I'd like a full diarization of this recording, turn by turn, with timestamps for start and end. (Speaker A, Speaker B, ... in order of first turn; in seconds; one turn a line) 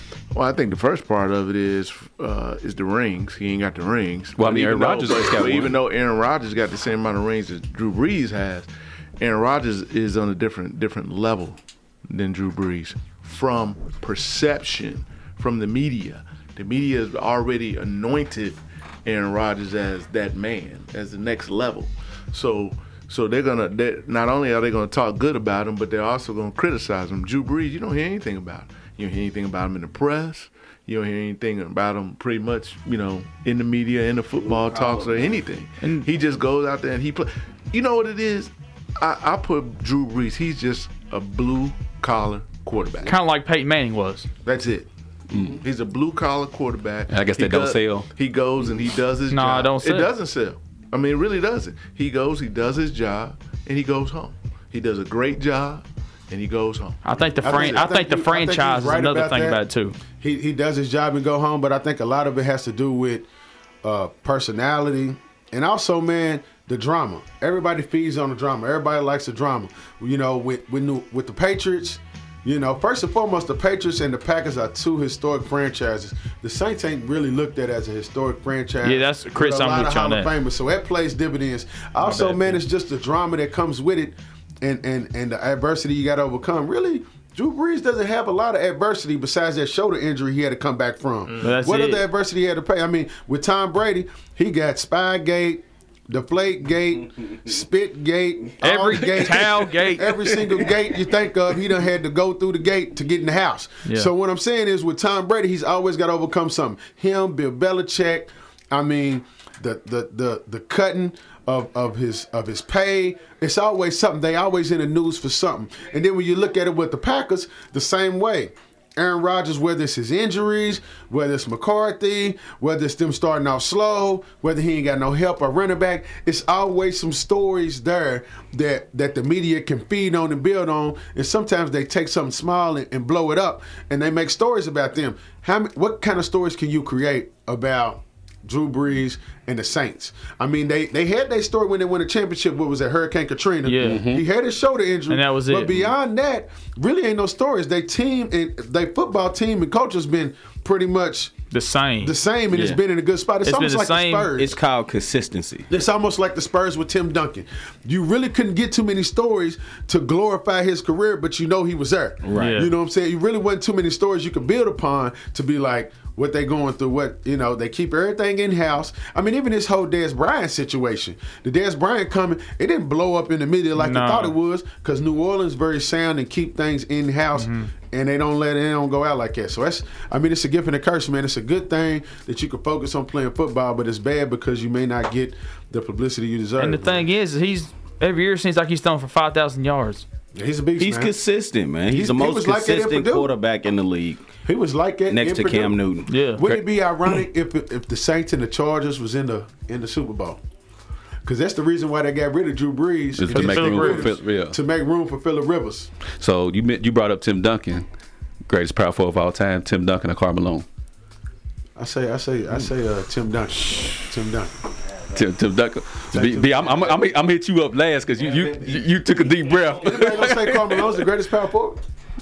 Speaker A: 0.3-8.7
Speaker B: 4.4-5.8
Speaker A: 9.2-43.1
Speaker C: 34.5-35.1
Speaker D: 35.8-36.1
Speaker D: 43.0-44.3
Speaker A: 44.4-44.9
Speaker B: 45.3-45.6
Speaker A: 45.4-57.0
Speaker B: 47.1-48.1
Speaker D: 49.3-50.1
Speaker D: 57.0-60.0
Speaker E: 57.4-59.6
Speaker E: 60.1-63.3
Speaker E: 63.8-151.4
Speaker D: 78.8-80.3
Speaker D: 82.0-82.6
Speaker D: 91.4-92.0
Speaker D: 98.6-100.2
Speaker D: 143.6-144.0
Speaker B: 143.8-144.2
Speaker D: 145.1-145.8
Speaker D: 151.5-152.2
Speaker E: 152.0-154.6
Speaker C: 152.5-152.8
Speaker D: 153.4-154.3
Speaker C: 154.3-155.7
Speaker E: 155.7-187.1
Speaker C: 162.2-162.6
Speaker D: 162.3-162.7
Speaker D: 173.8-174.3
Speaker D: 177.4-177.7
Speaker D: 186.6-190.1
Speaker E: 190.3-191.1
Speaker C: 190.8-194.2
Speaker E: 191.9-193.3
Speaker E: 194.4-195.8
Speaker C: 195.1-196.1
Speaker D: 196.1-196.4
Speaker E: 196.3-200.4
Speaker E: 201.2-205.9
Speaker B: 203.2-204.6
Speaker D: 203.4-204.1
Speaker B: 206.2-207.8
Speaker B: 208.5-210.7
Speaker E: 211.8-214.5
Speaker B: 215.1-221.0
Speaker E: 216.1-217.1
Speaker C: 218.3-218.7
Speaker E: 219.8-221.8